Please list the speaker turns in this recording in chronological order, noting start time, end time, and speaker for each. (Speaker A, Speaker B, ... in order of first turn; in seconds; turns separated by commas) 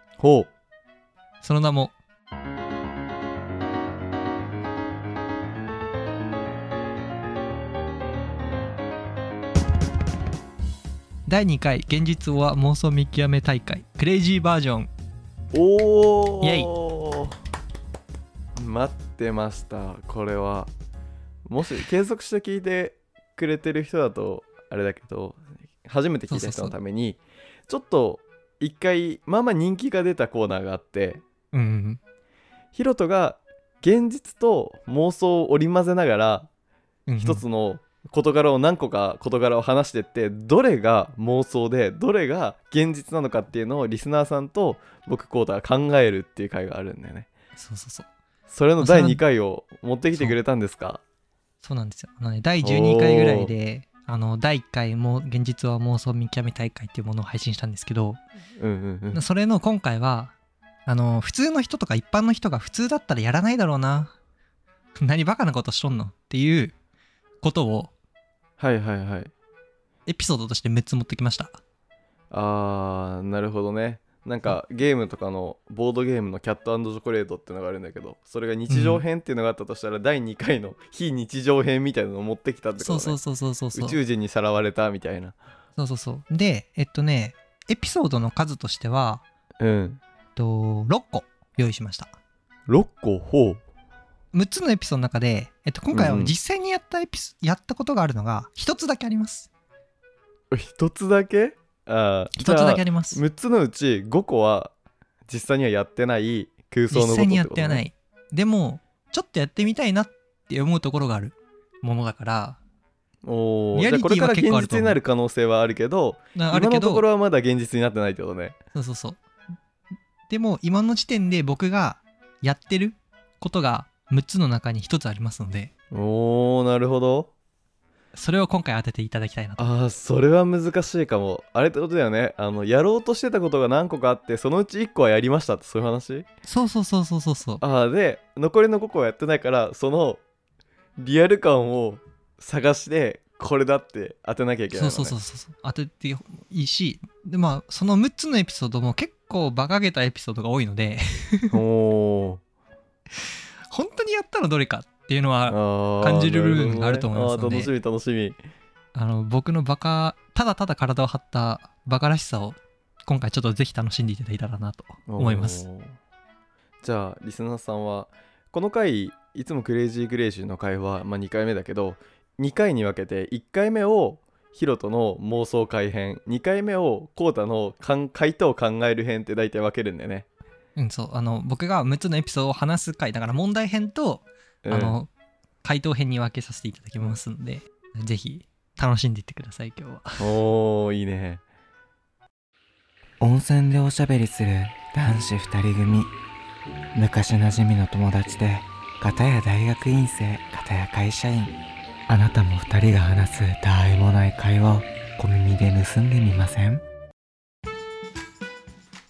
Speaker A: 0.2-0.5, Speaker B: 1.4-1.9, Speaker B: 11.3-14.9, Speaker A: 15.5-17.4, Speaker B: 16.4-16.7, Speaker A: 18.6-20.7, Speaker A: 21.4-31.2, Speaker B: 26.3-26.8, Speaker B: 31.5-32.0, Speaker A: 32.7-36.5, Speaker B: 37.1-37.4, Speaker A: 37.2-47.3, Speaker B: 47.6-48.1, Speaker A: 48.5-51.0, Speaker B: 48.8-49.2, Speaker B: 51.6-58.2, Speaker A: 52.6-53.5, Speaker A: 58.6-59.2, Speaker B: 59.1-60.3, Speaker B: 60.9-64.1, Speaker B: 65.0-66.7, Speaker B: 67.4-67.9, Speaker A: 68.6-69.3, Speaker B: 70.0-71.6, Speaker A: 72.3-83.2, Speaker B: 78.7-79.0, Speaker B: 82.8-84.0, Speaker A: 83.7-85.4, Speaker B: 85.8-89.2, Speaker A: 89.6-90.0, Speaker B: 90.3-92.1, Speaker A: 92.7-93.6, Speaker B: 94.3-99.5, Speaker A: 95.9-96.3, Speaker A: 100.5-104.7, Speaker B: 102.3-103.2, Speaker A: 105.3-107.8, Speaker B: 106.9-112.6, Speaker A: 113.2-118.5, Speaker B: 113.7-115.0, Speaker B: 116.3-117.0, Speaker B: 118.7-119.2, Speaker B: 120.3-125.7, Speaker A: 125.9-127.3, Speaker B: 128.1-129.6, Speaker A: 129.6-136.2, Speaker B: 136.4-137.6, Speaker A: 137.6-140.2, Speaker A: 141.0-145.2, Speaker B: 144.7-151.6, Speaker A: 151.5-152.4, Speaker B: 153.2-157.7, Speaker A: 155.5-158.4, Speaker B: 158.9-165.6, Speaker A: 165.1-166.0, Speaker A: 166.8-180.3, Speaker B: 180.8-185.1, Speaker A: 184.6-184.9, Speaker B: 185.6-190.3, Speaker A: 190.2-191.4, Speaker C: 193.2-196.1, Speaker C: 196.9-201.5, Speaker C: 202.1-206.8